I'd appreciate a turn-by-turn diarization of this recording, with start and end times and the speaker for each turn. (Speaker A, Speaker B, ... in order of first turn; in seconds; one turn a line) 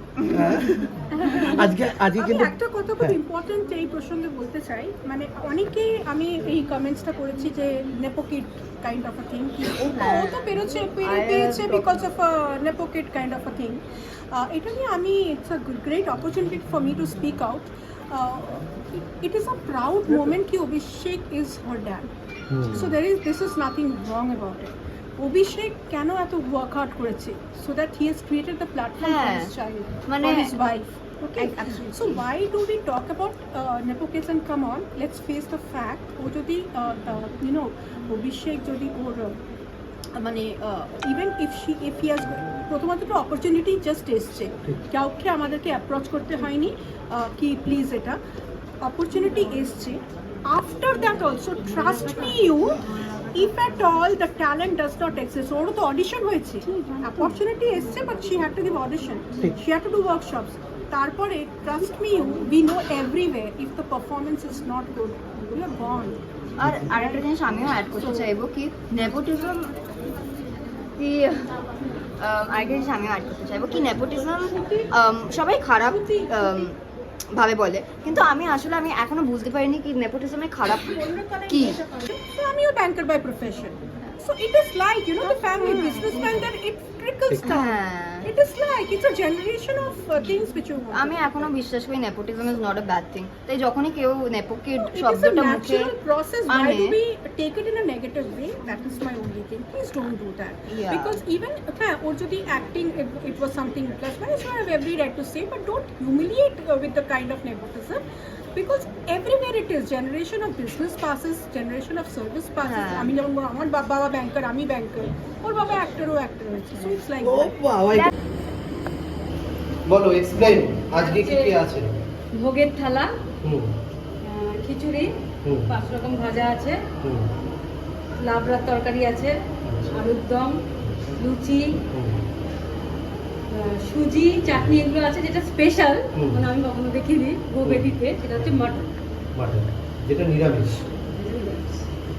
Speaker A: 0.2-0.9
Speaker B: 0.3-3.2
Speaker C: 1.2-22.1
Speaker A: 9.8-12.1
Speaker B: 22.5-23.0
Speaker C: 22.7-39.4
Speaker A: 29.0-29.5
Speaker A: 30.1-30.5
Speaker A: 31.4-32.2
Speaker C: 40.1-48.2
Speaker C: 48.8-52.8
Speaker C: 53.3-66.2
Speaker A: 66.6-69.7
Speaker B: 66.6-66.9
Speaker C: 67.9-68.3
Speaker A: 71.0-71.5
Speaker A: 72.2-76.7
Speaker C: 74.4-74.9
Speaker C: 75.8-76.7
Speaker A: 77.4-81.8
Speaker C: 80.8-91.5
Speaker A: 85.3-86.4
Speaker B: 87.3-87.5
Speaker A: 87.4-88.3
Speaker A: 90.9-95.9
Speaker C: 94.8-117.5
Speaker A: 96.5-97.0
Speaker A: 100.7-101.2
Speaker A: 112.6-113.1
Speaker B: 117.2-118.1
Speaker B: 119.9-121.9
Speaker D: 121.0-121.6
Speaker D: 122.3-123.1
Speaker B: 123.4-123.8
Speaker D: 124.2-125.1
Speaker B: 125.4-125.7
Speaker D: 125.7-126.8
Speaker B: 127.0-127.3
Speaker D: 128.2-129.4
Speaker B: 129.6-130.0
Speaker D: 129.9-130.6
Speaker D: 131.2-131.8
Speaker B: 131.9-132.2
Speaker D: 133.5-138.9
Speaker B: 134.5-134.8
Speaker B: 136.1-136.4
Speaker B: 137.6-138.6
Speaker B: 139.3-140.8
Speaker D: 141.1-141.8